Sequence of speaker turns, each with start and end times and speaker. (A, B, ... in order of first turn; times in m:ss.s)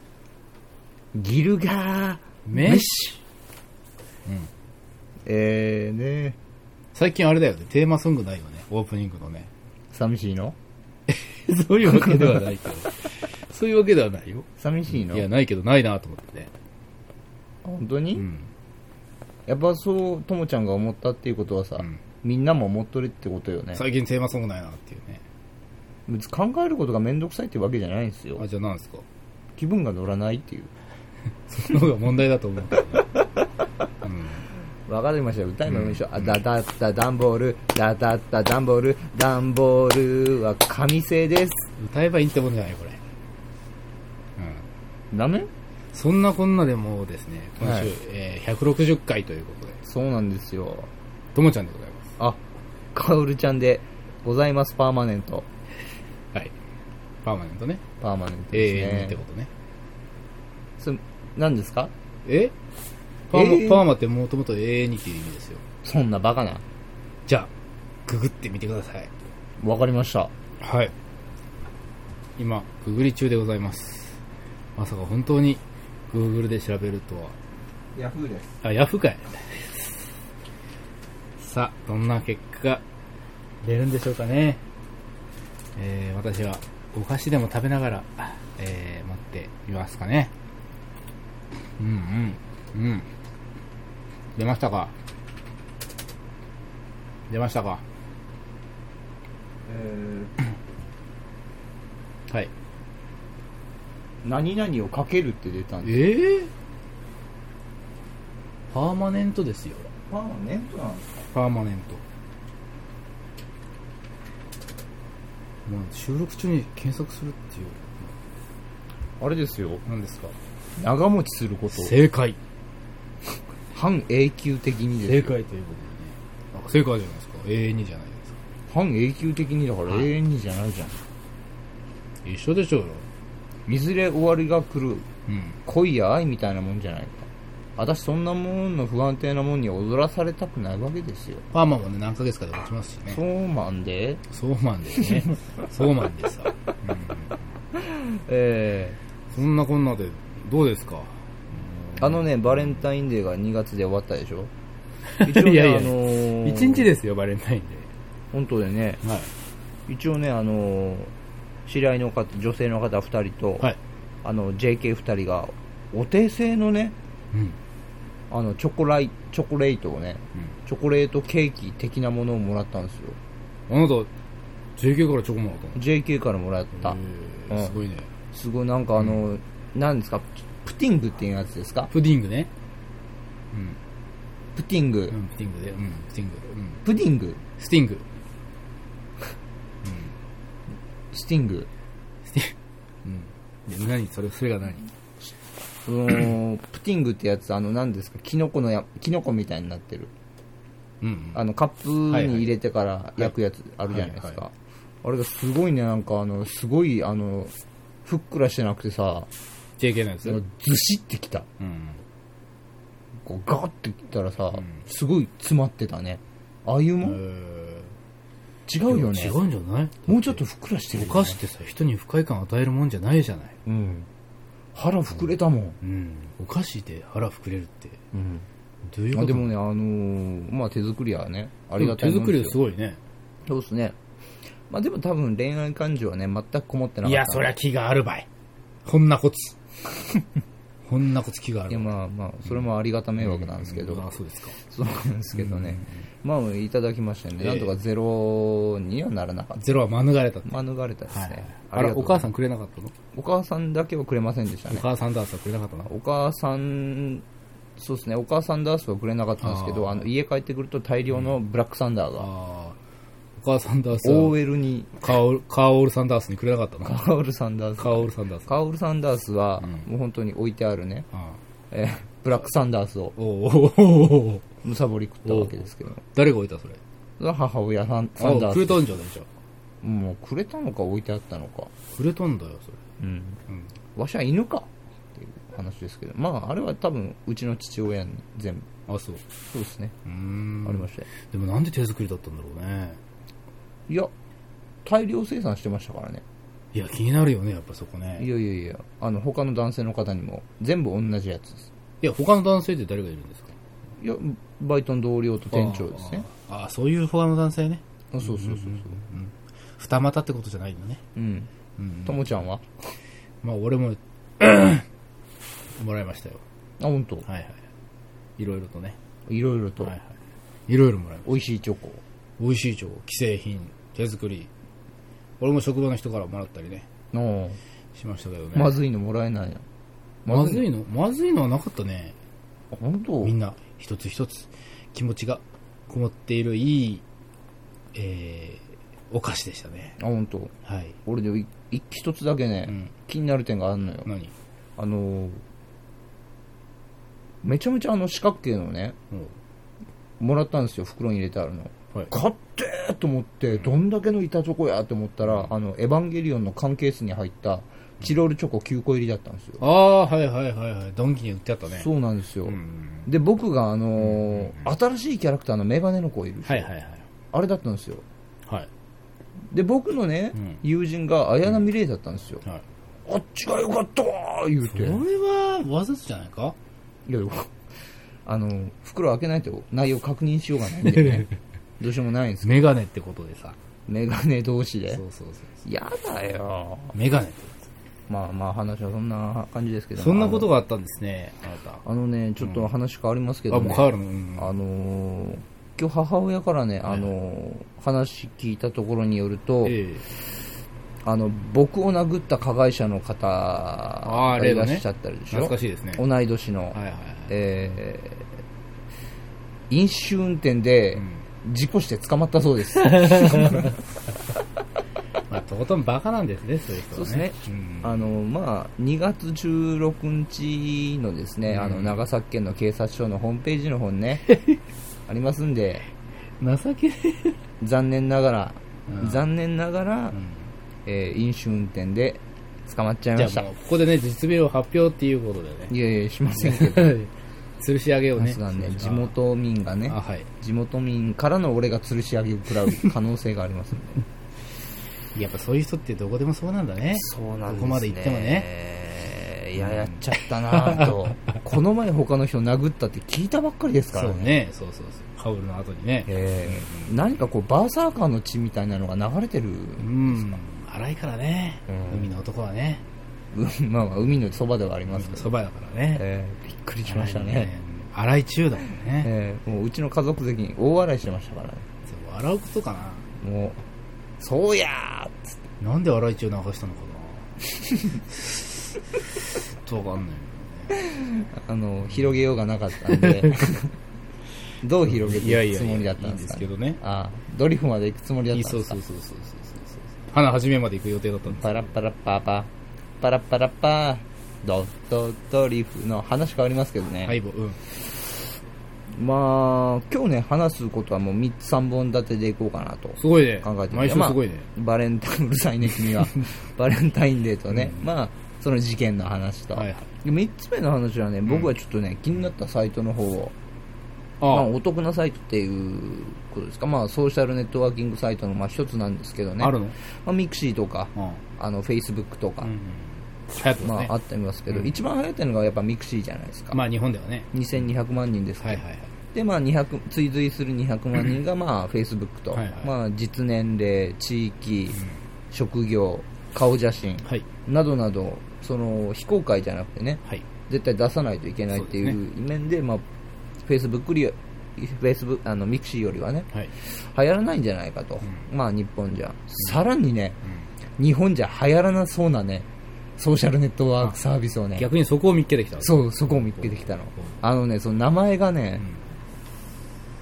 0:01.1-0:03.2 A
0:02.4-0:02.9 B
0:05.2-0:06.4 A
0:06.9-0:09.5 B
0:09.9-0:10.6 A
0:11.1-0:16.5 B
0:14.6-0:15.3 A
0:17.6-0:18.2 A
0:18.2-0:18.5 B
0:19.5-0:23.8 A
0:23.7-0:25.2 B
0:26.1-0:28.4 A
0:28.4-0:29.0 B
0:29.6-0:30.7 A
0:31.5-0:33.2 B
0:34.0-0:34.5 B
0:34.8-0:41.7 A
0:35.7-0:36.4 B
0:41.8-0:43.0 B
0:44.4-0:44.7 B
0:45.1-0:45.5 A
0:45.9-0:49.8 B
0:47.6-0:47.9 A
0:49.8-0:50.9 A
0:51.3-0:52.0 B
0:52.9-0:55.5 A
0:57.2-0:57.8 B
0:58.0-0:59.2 A
0:58.5-0:59.5 B
1:00.8-1:01.9 A
1:02.2-1:02.5 B
1:03.3-1:05.6 B
1:03.3-1:03.8 A
1:05.8-1:06.6 A
1:08.0-1:09.1 B
1:09.6-1:10.3 A
1:10.6-1:10.9 B
1:12.4-1:14.2 B
1:14.8-1:17.4 B
1:17.9-1:18.5 A
1:18.6-1:20.1 B
1:21.4-1:22.8 B
1:23.6-1:24.6 B
1:25.8-1:30.3 B
1:31.8-1:33.1 B
1:34.3-1:34.9 B
1:37.3-1:37.8 B
1:39.6-1:40.3 A
1:44.2-1:46.0 A
1:45.8-1:46.5 B
1:48.7-1:49.9 B
1:50.1-1:51.3 A
1:51.3-1:52.0 B
1:55.6-1:58.1 B
1:59.2-1:59.8 A
1:59.8-2:00.4 B
2:00.8-2:01.9 A
2:01.7-2:02.4 B
2:03.7-2:05.3 A
2:05.0-2:08.4 B
2:08.7-2:11.0 A
2:12.2-2:13.1 B
2:13.7-2:15.1 A
2:15.3-2:15.6 B
2:15.6-2:21.4 A
2:21.5-2:23.2 B
2:23.1-2:24.2 A
2:24.3-2:27.4 B
2:27.8-2:29.0 A
2:29.3-2:32.8 B
2:32.0-2:34.5 A
2:35.0-2:37.9 B
2:35.2-2:36.9 A
2:38.3-2:39.0 A
2:39.0-2:39.3 B
2:39.9-2:41.1 A
2:41.6-2:43.7 A
2:44.2-2:47.0 A
2:48.3-2:53.2 A
2:53.7-2:54.1 B
2:54.8-2:55.8 B
2:55.8-2:57.0 A
2:56.8-2:58.1 B
2:57.5-2:57.8 A
2:58.3-3:01.9 A
2:59.0-2:59.2 B
3:01.9-3:02.5 B
3:03.5-3:03.8 B
3:04.6-3:05.1 A
3:05.1-3:06.8 B
3:06.8-3:07.4 A
3:07.6-3:08.0 B
3:09.8-3:10.1 B
3:11.1-3:11.7 A
3:12.2-3:14.9 B
3:15.8-3:20.1 A
3:21.0-3:21.4 B
3:21.3-3:24.5 A
3:22.1-3:22.5 B
3:23.9-3:24.4 B
3:25.0-3:27.5 A
3:28.0-3:29.3 A
3:29.8-3:30.4 B
3:30.2-3:31.5 A
3:31.6-3:32.0 B
3:33.2-3:37.2 A
3:37.0-3:37.9 B
3:38.7-3:39.4 A
3:38.8-3:40.4 B
3:40.0-3:41.4 A
3:40.9-3:43.6 B
3:43.6-3:44.1 A
3:44.7-3:45.8 A
3:45.8-3:48.0 B
3:48.1-3:48.4 A
3:48.9-3:49.6 B
3:49.1-3:52.6 A
3:51.8-3:53.0 B
3:53.4-3:54.0 A
3:54.7-3:57.5 A
3:57.0-3:58.3 B
3:58.8-3:59.6 B
4:00.8-4:01.9 B
4:01.7-4:09.6 A
4:03.2-4:04.6 B
4:05.3-4:06.0 B
4:07.4-4:07.7 B
4:09.6-4:12.9 B
4:10.4-4:12.3 A
4:13.1-4:14.8 A
4:14.7-4:15.9 B
4:15.9-4:17.2 A
4:17.8-4:22.3 A
4:19.4-4:20.1 B
4:22.2-4:22.8 B
4:23.4-4:24.4 B
4:24.0-4:25.0 A
4:25.0-4:27.0 B
4:26.8-4:31.0 A
4:27.8-4:28.5 B
4:29.6-4:29.9 B
4:31.1-4:31.4 B
4:31.7-4:33.1 A
4:33.2-4:34.4 B
4:34.6-4:36.0 A
4:35.2-4:36.8 B
4:37.2-4:38.8 A
4:38.2-4:39.3 B
4:39.8-4:41.7 A
4:41.9-4:42.8 B
4:43.0-4:43.4 A
4:43.9-4:48.7 A
4:48.9-4:49.2 B
4:49.5-4:49.9 A
4:50.0-4:53.0 B
4:50.6-4:51.1 A
4:54.8-4:56.2 A
4:56.7-4:58.3 B
4:58.2-5:01.6 A
5:02.0-5:03.5 B
5:04.0-5:06.3 A
5:05.5-5:11.0 B
5:08.1-5:09.0 A
5:11.2-5:11.5 A
5:11.8-5:12.2 B
5:12.0-5:12.8 A
5:13.4-5:14.8 B
5:15.7-5:16.4 B
5:16.8-5:17.2 A
5:17.2-5:17.6 B
5:18.4-5:19.0 B
5:19.3-5:19.9 A
5:19.8-5:20.1 B
5:20.7-5:21.3 B
5:21.2-5:22.0 A
5:22.4-5:24.5 B
5:25.4-5:26.9 B
5:27.1-5:27.6 A
5:27.9-5:28.8 B
5:28.5-5:29.6 A
5:30.2-5:30.6 A
5:30.3-5:32.2 B
5:32.7-5:33.3 A
5:33.2-5:37.0 B
5:37.9-5:40.0 B
5:40.0-5:40.5 A
5:40.6-5:41.0 B
5:41.0-5:44.1 A
5:44.0-5:44.3 B
5:44.8-5:45.4 A
5:47.4-5:49.0 A
5:50.2-5:59.6 A
5:55.2-5:55.5 B
5:59.6-6:01.9 B
6:01.7-6:06.7 A
6:02.4-6:03.1 B
6:04.0-6:04.7 B
6:06.4-6:07.0 B
6:07.3-6:08.0 A
6:09.5-6:12.4 A
6:13.0-6:15.0 A
6:14.6-6:16.6 B
6:17.1-6:17.5 A
6:18.2-6:22.6 A
6:20.9-6:21.2 B
6:22.4-6:23.6 B
6:23.9-6:25.0 A
6:24.9-6:25.6 B
6:25.6-6:27.0 A
6:26.9-6:27.6 B
6:28.1-6:30.5 A
6:30.0-6:31.8 B
6:31.8-6:39.8 A
6:32.4-6:32.7 B
6:33.5-6:34.6 B
6:36.8-6:37.1 B
6:39.6-6:40.0 B
6:41.0-6:48.3 A
6:44.0-6:46.0 B
6:46.7-6:47.3 B
6:49.7-6:53.7 A
6:53.0-6:53.7 B
6:55.3-6:57.9 B
6:56.9-7:04.3 A
7:01.5-7:02.0 B
7:05.1-7:05.9 A
7:06.4-7:07.4 B
7:07.6-7:10.2 A
7:08.9-7:09.2 B
7:10.1-7:10.5 B
7:10.8-7:13.4 A
7:13.2-7:15.7 B
7:15.7-7:17.0 A
7:16.3-7:19.1 B
7:18.2-7:24.0 A
7:19.9-7:20.3 B
7:25.1-7:28.5 B
7:27.0-7:34.3 A
7:29.6-7:31.0 B
7:33.9-7:37.1 B
7:36.1-7:40.4 A
7:39.8-7:42.8 B
7:41.7-7:42.1 A
7:43.3-7:45.3 A
7:44.9-7:46.0 B
7:45.9-7:47.5 A
7:46.8-7:49.1 B
7:49.0-7:51.6 A
7:51.8-7:53.1 B
7:53.2-7:53.6 A
7:54.2-7:55.4 A
7:55.6-7:57.4 B
7:57.9-8:00.7 B
8:00.8-8:03.7 A
8:02.8-8:03.5 B
8:04.6-8:08.8 A
8:04.8-8:06.8 B
8:08.3-8:11.7 B
8:11.3-8:12.5 A
8:13.0-8:17.2 A
8:17.0-8:17.6 B
8:18.9-8:33.3 A
8:23.0-8:24.5 B
8:27.5-8:27.8 B
8:29.5-8:29.9 B
8:31.2-8:31.5 B
8:34.2-8:34.5 B
8:34.2-8:42.5 A
8:39.4-8:39.8 B
8:41.0-8:41.2 B
8:42.4-8:43.9 B
8:43.6-8:46.6 A
8:44.5-8:44.8 B
8:46.5-8:47.3 B
8:47.3-8:48.6 A
8:48.4-8:48.9 B
8:49.1-8:54.8 A
8:52.3-8:52.7 B
8:54.7-8:55.0 B
8:55.3-9:02.8 A
9:01.5-9:02.0 B
9:03.4-9:10.2 A
9:10.2-9:10.5 B
9:10.8-9:12.5 A
9:13.0-9:14.7 A
9:14.6-9:17.1 B
9:15.6-9:18.6 A